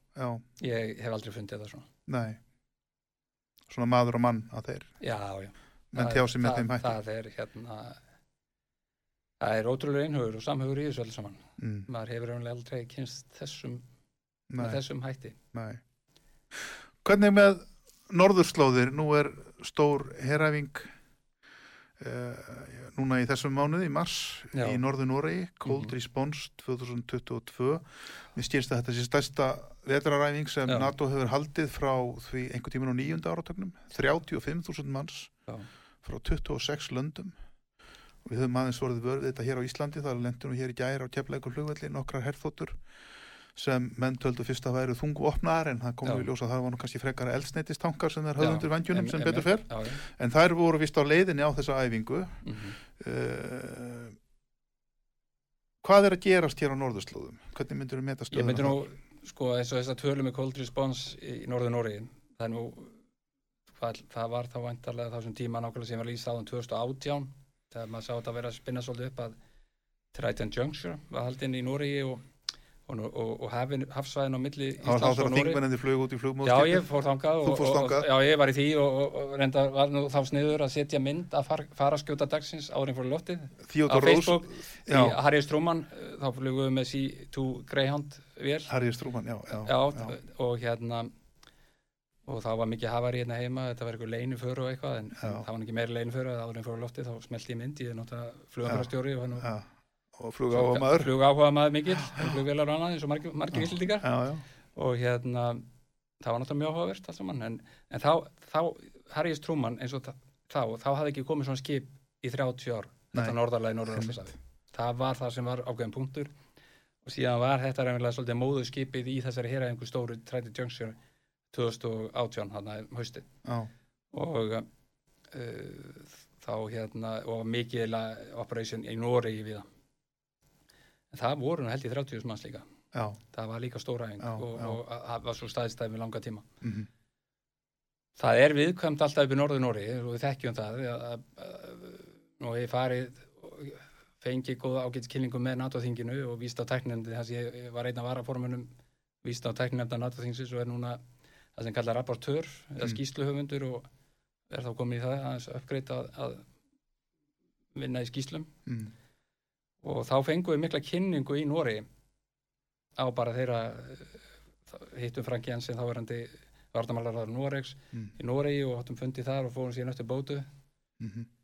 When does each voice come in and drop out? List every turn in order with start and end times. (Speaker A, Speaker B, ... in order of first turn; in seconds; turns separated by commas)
Speaker A: 0.1-0.4, Speaker B: 0.6-1.9, Speaker A: 2.1-2.4, Speaker A: 3.7-4.9, Speaker B: 5.0-8.0, Speaker A: 5.9-7.0, Speaker B: 9.4-13.8, Speaker A: 11.6-11.9, Speaker A: 14.5-14.8, Speaker B: 14.6-15.4, Speaker A: 15.5-15.8, Speaker A: 16.6-20.9, Speaker A: 22.0-35.3, Speaker B: 24.5-24.8, Speaker B: 25.6-25.9, Speaker A: 36.0-37.3, Speaker A: 38.2-42.8, Speaker A: 43.5-52.4, Speaker B: 46.0-46.3, Speaker B: 48.4-50.0, Speaker B: 52.4-52.8, Speaker A: 53.0-54.1, Speaker A: 55.8-58.8, Speaker B: 58.3-63.0, Speaker B: 63.7-69.3, Speaker B: 70.1-72.2, Speaker B: 72.9-75.6, Speaker A: 74.8-76.9, Speaker B: 76.4-88.7, Speaker A: 77.4-78.1, Speaker A: 83.6-85.2, Speaker A: 88.7-90.2, Speaker B: 89.6-91.1, Speaker B: 92.2-99.5, Speaker A: 95.2-95.5, Speaker A: 98.6-101.1, Speaker B: 100.5-104.1, Speaker A: 103.5-104.4, Speaker B: 104.7-105.7, Speaker B: 106.2-116.3, Speaker A: 113.9-114.3, Speaker B: 117.0-121.0, Speaker B: 121.5-123.2, Speaker A: 123.4-123.7, Speaker B: 124.1-124.7, Speaker B: 125.3-129.7, Speaker B: 131.1-132.6, Speaker A: 132.9-133.2, Speaker B: 133.3-136.4, Speaker A: 134.2-134.8, Speaker A: 136.6-136.9, Speaker B: 138.2-148.7, Speaker B: 149.2-151.0, Speaker B: 151.6-153.9, Speaker B: 154.5-156.4, Speaker B: 157.7-158.5, Speaker A: 158.7-158.9, Speaker B: 159.8-161.8, Speaker B: 163.0-170.5, Speaker A: 171.0-171.3